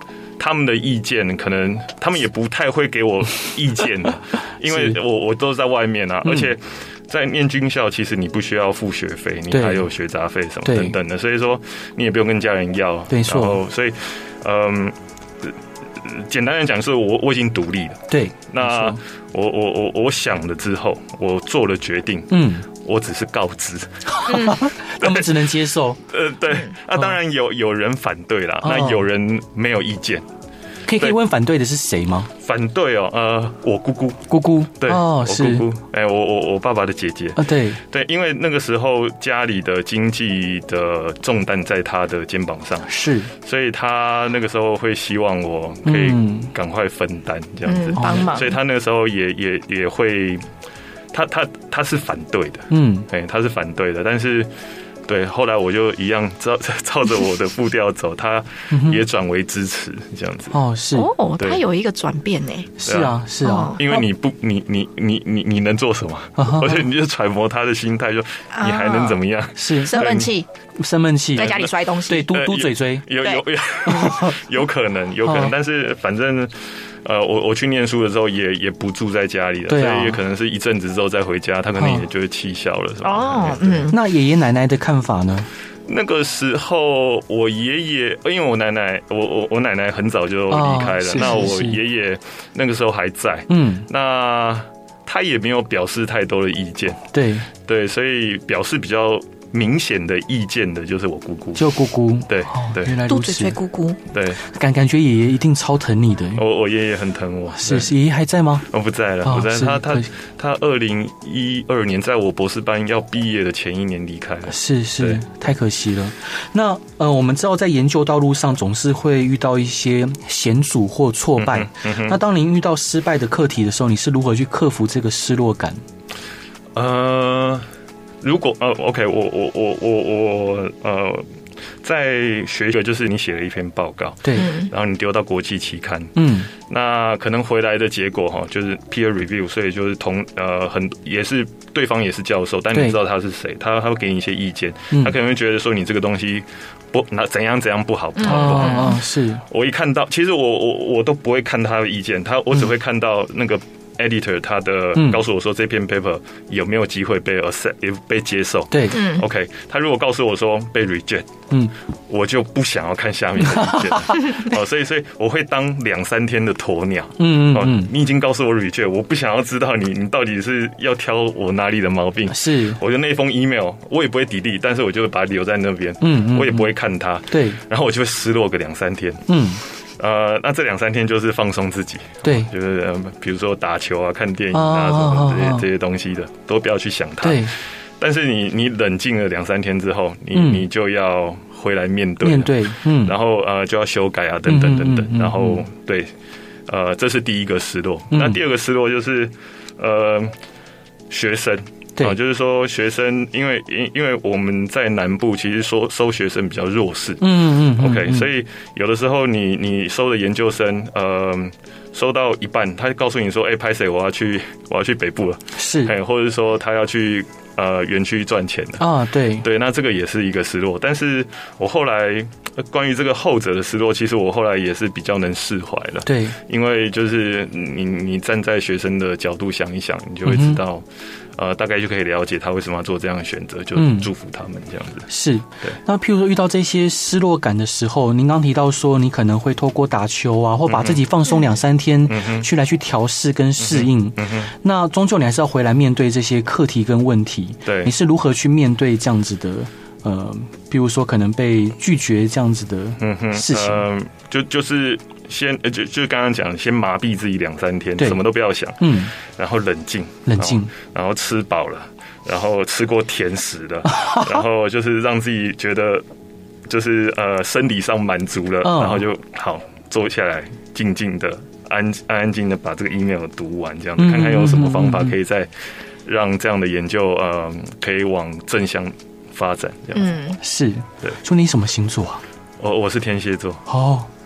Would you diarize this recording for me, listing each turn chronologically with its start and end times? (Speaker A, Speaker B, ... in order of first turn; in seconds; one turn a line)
Speaker A: 0.4-24.1
Speaker B: 4.7-5.0
Speaker B: 6.2-6.5
Speaker B: 9.5-9.9
Speaker B: 10.6-10.9
Speaker B: 13.1-13.6
Speaker B: 18.1-19.0
Speaker B: 22.3-22.6
Speaker B: 24.1-26.0
Speaker C: 24.3-24.6
Speaker A: 25.0-25.5
Speaker A: 26.1-30.3
Speaker B: 28.6-29.1
Speaker B: 30.9-32.3
Speaker A: 32.4-50.4
Speaker B: 34.3-35.7
Speaker B: 37.4-37.8
Speaker B: 42.9-43.3
Speaker B: 45.9-46.5
Speaker C: 47.6-48.6
Speaker B: 48.0-48.3
Speaker A: 51.1-54.5
Speaker B: 52.7-53.1
Speaker A: 55.0-60.5
Speaker B: 58.7-59.0
Speaker B: 60.5-61.1
Speaker C: 60.9-62.8
Speaker B: 62.8-64.0
Speaker A: 62.8-63.2
Speaker C: 63.4-63.8
Speaker A: 63.7-70.3
Speaker B: 66.4-66.8
Speaker C: 68.5-69.2
Speaker B: 69.5-70.2
Speaker C: 69.8-70.5
Speaker B: 70.8-71.5
Speaker C: 71.3-72.3
Speaker A: 71.3-71.7
Speaker B: 72.0-73.1
Speaker A: 72.3-83.9
Speaker B: 73.9-74.3
Speaker B: 75.2-75.5
Speaker B: 79.7-80.2
Speaker B: 81.8-82.0
Speaker C: 83.0-84.0
Speaker B: 83.9-85.5
Speaker A: 85.8-103.0
Speaker B: 90.5-91.8
Speaker B: 93.5-93.9
Speaker B: 97.1-97.5
Speaker B: 101.5-103.6
Speaker C: 103.0-104.0
Speaker A: 104.1-104.4
Speaker B: 104.4-106.4
Speaker A: 106.3-107.9
Speaker B: 107.5-108.7
Speaker A: 108.7-115.2
Speaker B: 109.2-110.1
Speaker B: 114.5-125.8
Speaker A: 121.3-122.2
Speaker A: 126.7-127.6
Speaker A: 128.2-131.2
Speaker A: 131.8-161.3
Speaker B: 134.2-134.5
Speaker C: 134.3-134.7
Speaker B: 136.2-136.5
Speaker C: 148.2-149.0
Speaker B: 148.2-149.4
Speaker B: 158.7-159.0
Speaker C: 158.9-159.2
Speaker A: 162.1-179.2
Speaker B: 163.4-164.3
Speaker B: 167.2-167.9
Speaker B: 172.3-172.8
Speaker B: 176.0-176.7
Speaker B: 177.3-177.6
Speaker B: 179.3-179.6
Speaker A: 180.0-196.1
Speaker B: 182.2-182.5
Speaker B: 184.5-185.7
Speaker B: 187.2-187.5
Speaker B: 190.3-190.7
Speaker B: 192.2-193.2
Speaker B: 194.5-195.6
Speaker A: 196.7-200.3
Speaker B: 198.1-198.4
Speaker A: 201.1-218.9
Speaker B: 207.2-208.3
Speaker B: 215.6-215.9
Speaker B: 218.8-219.4
Speaker A: 219.4-230.8
Speaker B: 226.0-226.4
Speaker B: 230.2-230.6
Speaker A: 231.3-235.1
Speaker B: 233.8-234.1
Speaker B: 235.1-253.8
Speaker A: 240.7-241.1
Speaker A: 242.1-242.5
Speaker A: 243.6-244.5
Speaker A: 247.7-247.9
Speaker A: 253.0-266.0
Speaker B: 258.8-259.1
Speaker B: 260.2-260.7
Speaker B: 263.9-264.3
Speaker A: 266.7-275.5
Speaker B: 268.6-269.0
Speaker B: 274.0-275.1
Speaker A: 276.0-280.1
Speaker C: 279.9-280.4
Speaker B: 280.4-282.2
Speaker A: 282.6-283.6
Speaker B: 283.7-284.1